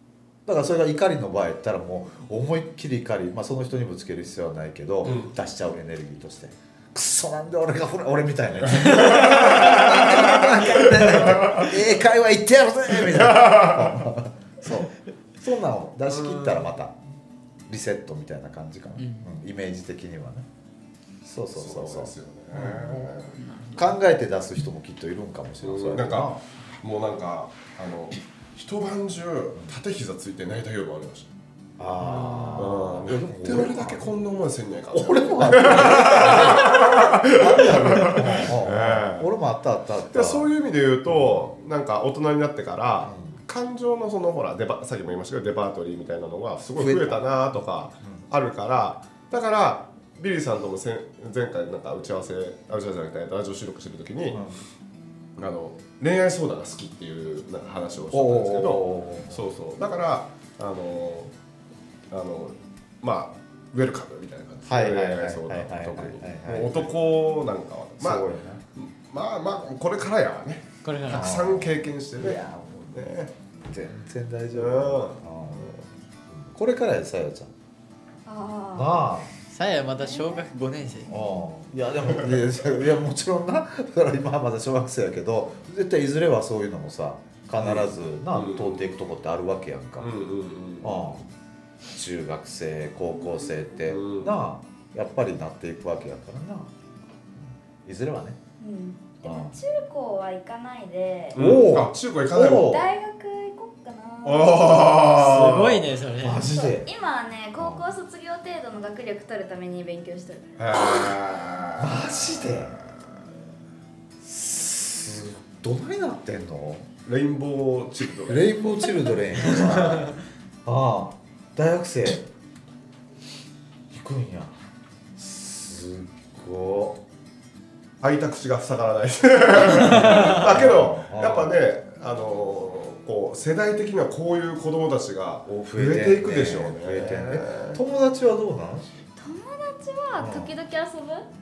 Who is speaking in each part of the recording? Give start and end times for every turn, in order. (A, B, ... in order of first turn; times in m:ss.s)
0:00.4-0:16.9 A
0:05.0-0:05.3 B
0:08.6-0:11.8 B
0:08.7-0:11.4 C
0:12.9-0:14.0 B
0:16.1-0:16.6 B
0:17.7-0:20.4 A
0:19.0-0:19.3 C
0:21.2-0:23.1 A
0:21.6-0:23.4 B
0:22.6-0:24.0 C
0:23.7-0:26.4 A
0:25.6-0:31.3 B
0:31.8-0:34.1 A
0:32.0-0:32.6 C
0:32.5-0:39.3 B
0:34.9-0:40.5 A
0:40.1-0:54.4 B
0:41.1-0:41.4 A
0:43.0-0:43.4 A
0:46.8-0:48.2 A
0:55.4-1:01.3 B
0:58.1-0:59.4 A
1:02.1-1:12.4 B
1:04.6-1:06.9 A
1:08.0-1:08.6 A
1:10.8-1:11.4 C
1:11.1-1:13.1 A
1:12.9-1:13.3 B
1:13.6-1:15.7 A
1:14.5-1:15.8 B
1:16.4-1:17.5 A
1:18.2-1:19.1 D
1:18.7-1:19.3 A
1:19.5-1:21.1 C
1:20.0-1:20.5 D
1:21.1-1:30.1 A
1:22.1-1:22.7 B
1:27.6-1:28.8 B
1:30.0-1:31.1 B
1:30.8-1:31.2 A
1:31.9-1:36.7 A
1:33.2-1:33.5 D
1:33.9-1:34.4 B
1:37.3-1:38.4 A
1:38.6-1:41.6 D
1:39.2-1:39.6 A
1:41.3-1:42.7 B
1:41.3-1:42.9 A
1:42.5-1:45.2 D
1:44.2-1:45.9 B
1:45.1-1:46.6 C
1:46.2-1:46.9 A
1:46.4-1:50.5 D
1:47.6-1:47.9 A
1:50.6-1:52.9 B
1:51.8-1:52.8 A
1:54.2-1:56.9 A
1:57.0-1:58.6 B
1:58.3-2:02.2 A
1:59.8-2:00.1 C
2:03.9-2:04.5 A
2:05.2-2:07.0 A
2:08.0-2:17.8 B
2:09.7-2:10.4 C
2:09.7-2:11.6 A
2:15.5-2:19.0 A
2:19.2-2:21.2 D
2:20.2-2:20.6 A